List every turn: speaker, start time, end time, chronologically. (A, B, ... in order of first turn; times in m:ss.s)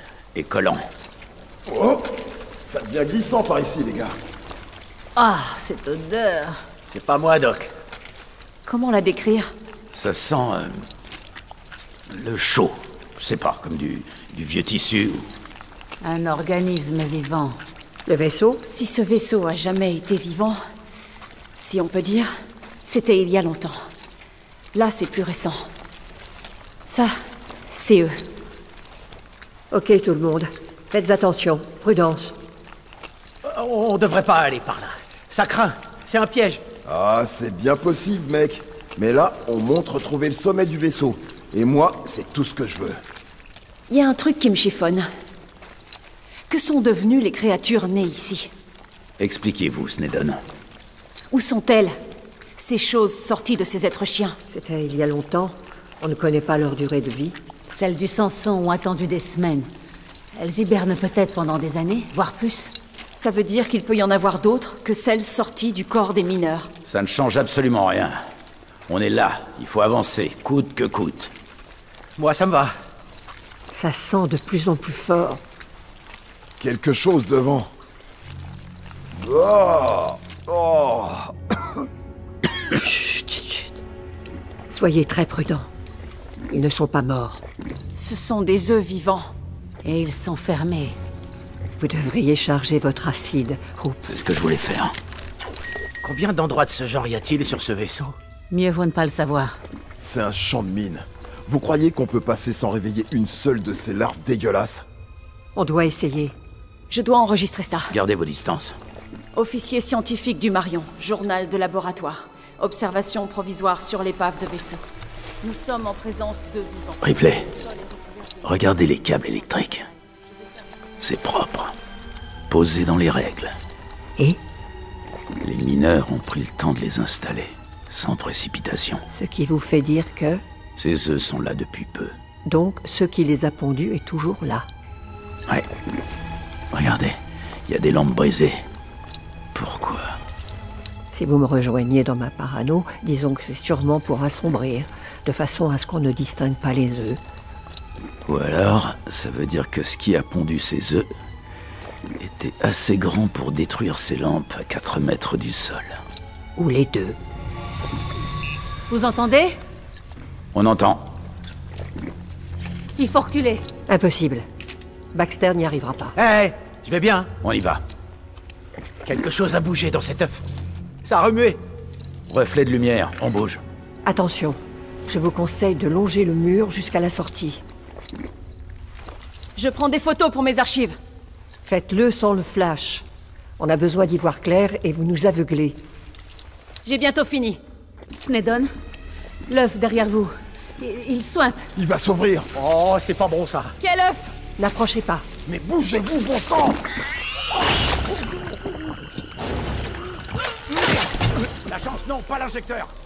0:00.3-0:00.8 A
0:01.7-0:04.2 B
0:05.2-0:06.6 C
0:06.9-0:07.7 D
0:08.6-0:09.5 E
0:09.9-0:10.7 A
0:12.1-0:15.3 A
0:16.0-0:17.6 C
0:18.0-0:18.6 F
0:18.7-0:20.6 E
0:21.6-0:22.3 E
0:22.8-0:23.7 E
0:24.7-0:25.6 E
0:27.7-0:28.1 E
0:29.7-0:32.4 F
0:33.4-0:36.6 D
0:36.8-0:43.0 B
0:43.9-0:45.0 E
0:46.5-0:48.5 E
0:49.2-0:50.4 A
0:51.3-0:51.9 E
0:52.6-0:54.4 E
0:54.5-0:57.4 F
0:57.7-0:59.7 C
1:00.4-1:02.7 C
1:03.2-1:06.7 E
1:06.8-1:08.2 A
1:08.9-1:11.3 A
1:12.2-1:12.7 D
1:13.7-1:15.4 F
1:16.6-1:17.7 B
1:19.2-1:21.3 B
1:22.7-1:23.8 F
1:24.7-1:25.7 F
1:26.5-1:27.4 F
1:27.9-1:29.3 E
1:29.8-1:31.0 C
1:31.8-1:34.1 F
1:34.0-1:34.9 A
1:36.0-1:38.1 D
1:38.5-1:39.6 C
1:40.0-1:44.8 B
1:45.5-1:46.3 F
1:46.9-1:47.9 E
1:47.9-1:48.8 A
1:49.3-1:54.8 E
1:55.4-1:58.5 E
1:57.0-1:57.5 A
1:58.4-1:59.8 A
2:00.1-2:00.6 E
2:01.0-2:01.7 A
2:02.5-2:03.6 A
2:05.4-2:09.0 A
2:09.1-2:10.4 F
2:10.8-2:12.1 A
2:12.5-2:14.6 F
2:16.7-2:17.2 A
2:17.7-2:18.6 A
2:19.5-2:20.2 A
2:21.1-2:27.2 F
2:28.2-2:31.1 A
2:32.2-2:36.0 A
2:36.6-2:37.2 F
2:38.9-2:39.6 C
2:40.5-2:41.0 A
2:43.0-2:43.6 C
2:43.9-2:44.4 F
2:45.1-2:46.2 F
2:46.2-2:47.3 D
2:47.4-2:47.8 A
2:49.0-2:50.4 D
2:51.0-2:51.6 D
2:52.3-2:53.6 A
2:54.0-2:57.6 F
2:59.6-3:01.0 E
3:01.6-3:03.0 F
3:03.6-3:05.8 F
3:06.8-3:07.6 E
3:08.2-3:08.7 C
3:09.5-3:11.7 C
3:11.8-3:12.5 B
3:12.5-3:13.7 D
3:13.8-3:14.4 E
3:14.6-3:15.3 F
3:15.4-3:16.8 B
3:21.6-3:22.9 A